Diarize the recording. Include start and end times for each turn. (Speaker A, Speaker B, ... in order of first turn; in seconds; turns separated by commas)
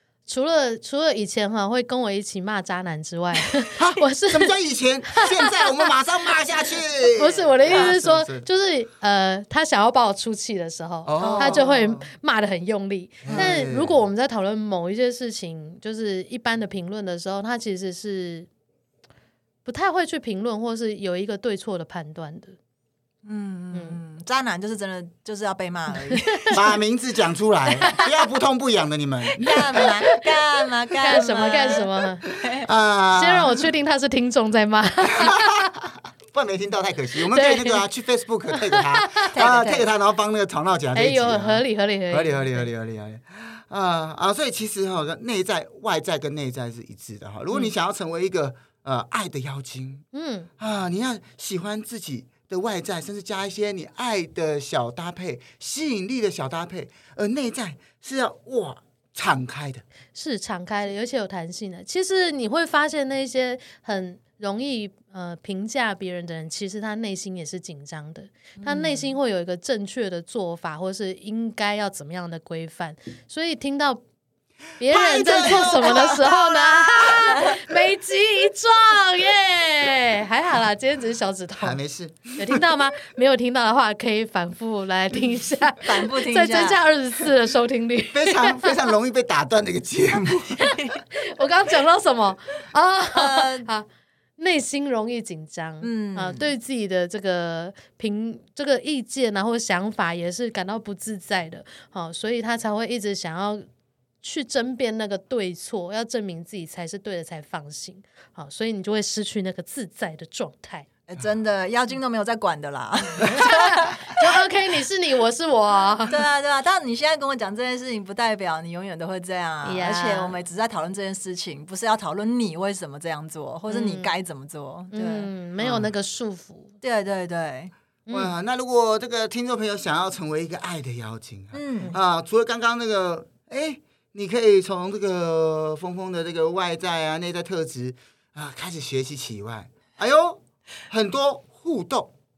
Speaker A: 0.3-4.5, Speaker B: 3.8-8.4, Speaker A: 5.1-5.9, Speaker A: 7.0-18.5, Speaker B: 11.0-12.1, Speaker C: 11.2-11.7, Speaker B: 13.2-14.0, Speaker C: 13.3-13.6, Speaker A: 19.6-22.6, Speaker C: 23.2-26.6, Speaker A: 26.1-26.6, Speaker B: 26.5-29.9, Speaker C: 29.4-32.7, Speaker A: 31.0-32.3, Speaker B: 31.4-31.8, Speaker B: 32.6-33.7, Speaker A: 33.1-35.7, Speaker B: 35.1-50.0, Speaker A: 37.3-37.8, Speaker A: 38.5-39.3, Speaker C: 39.3-39.9, Speaker A: 40.9-42.7, Speaker A: 50.1-50.5, Speaker B: 50.6-59.8, Speaker A: 60.1-74.0, Speaker C: 68.6-69.1, Speaker A: 74.8-81.8, Speaker B: 74.9-77.8, Speaker B: 81.6-82.7, Speaker A: 82.3-88.9, Speaker C: 85.8-86.8, Speaker B: 88.1-90.8, Speaker A: 90.7-93.8, Speaker C: 93.1-93.7, Speaker A: 94.4-103.6, Speaker C: 95.8-96.5, Speaker A: 104.2-110.9, Speaker C: 111.1-114.0, Speaker A: 113.2-116.2, Speaker C: 116.1-125.3, Speaker A: 119.6-120.4, Speaker A: 123.7-124.1, Speaker A: 124.9-126.7, Speaker B: 125.6-125.9, Speaker C: 126.8-127.7, Speaker A: 128.1-128.3, Speaker B: 128.1-142.1, Speaker C: 131.5-131.9